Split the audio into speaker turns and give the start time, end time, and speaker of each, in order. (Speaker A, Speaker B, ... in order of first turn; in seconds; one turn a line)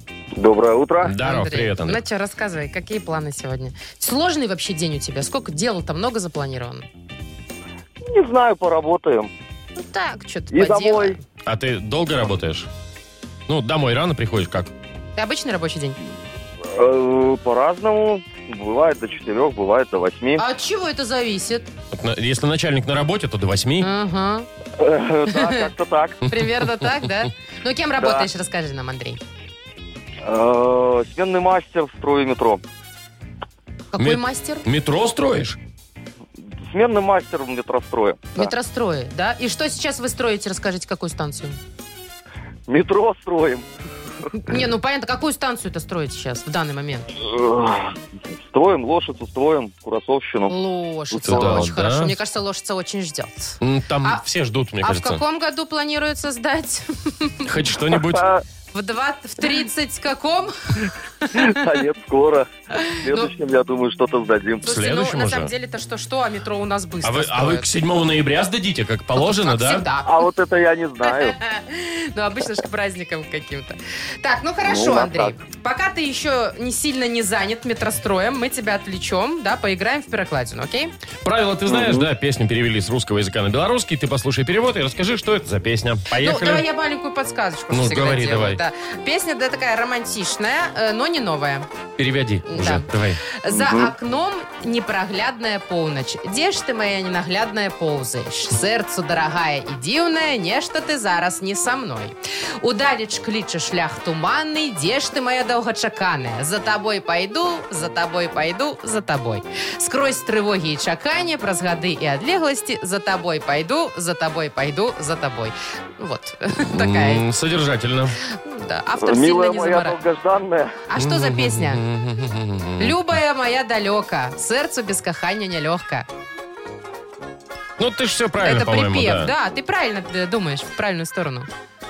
Speaker A: 0.4-1.1
Speaker B: 1.0-2.0
Speaker C: 1.2-6.9
Speaker A: 8.0-9.3
Speaker C: 9.8-11.2
Speaker A: 10.5-11.2
Speaker B: 11.5-12.7
Speaker B: 13.5-14.7
Speaker C: 15.2-16.0
Speaker A: 16.7-20.4
Speaker C: 20.4-21.7
Speaker B: 21.9-23.9
Speaker C: 23.8-24.5
Speaker A: 24.8-26.2
Speaker C: 25.3-25.6
Speaker C: 26.2-29.2
Speaker B: 26.3-26.9
Speaker A: 28.0-28.3
Speaker A: 30.2-32.6
Speaker C: 33.9-34.7
Speaker B: 34.0-35.6
Speaker A: 36.7-38.5
Speaker C: 38.4-41.6
Speaker A: 42.7-43.7
Speaker C: 44.3-47.1
Speaker A: 47.2-47.9
Speaker A: 48.5-50.5
Speaker C: 50.5-54.2
Speaker A: 51.1-51.7
Speaker B: 51.2-52.2
Speaker B: 53.6-55.2
Speaker C: 54.8-57.5
Speaker B: 57.5-58.3
Speaker A: 58.1-58.4
Speaker C: 58.7-61.6
Speaker A: 61.3-62.5
Speaker C: 62.8-63.3
Speaker A: 63.0-64.7
Speaker C: 64.6-67.7
Speaker B: 64.6-65.5
Speaker B: 67.0-69.9
Speaker C: 69.2-70.3
Speaker A: 70.0-71.4
Speaker C: 71.0-80.9
Speaker A: 74.6-75.4
Speaker B: 81.2-86.6
Speaker A: 81.7-82.1
Speaker C: 86.2-91.7
Speaker B: 87.7-88.6
Speaker B: 92.0-93.2
Speaker C: 92.5-117.2
Speaker A: 93.5-93.9
Speaker B: 116.6-118.2
Speaker C: 118.3-120.0
Speaker A: 119.0-120.8
Speaker C: 120.9-121.8
Speaker B: 121.0-123.0
Speaker C: 122.8-126.1
Speaker B: 127.8-129.3
Speaker C: 128.4-131.5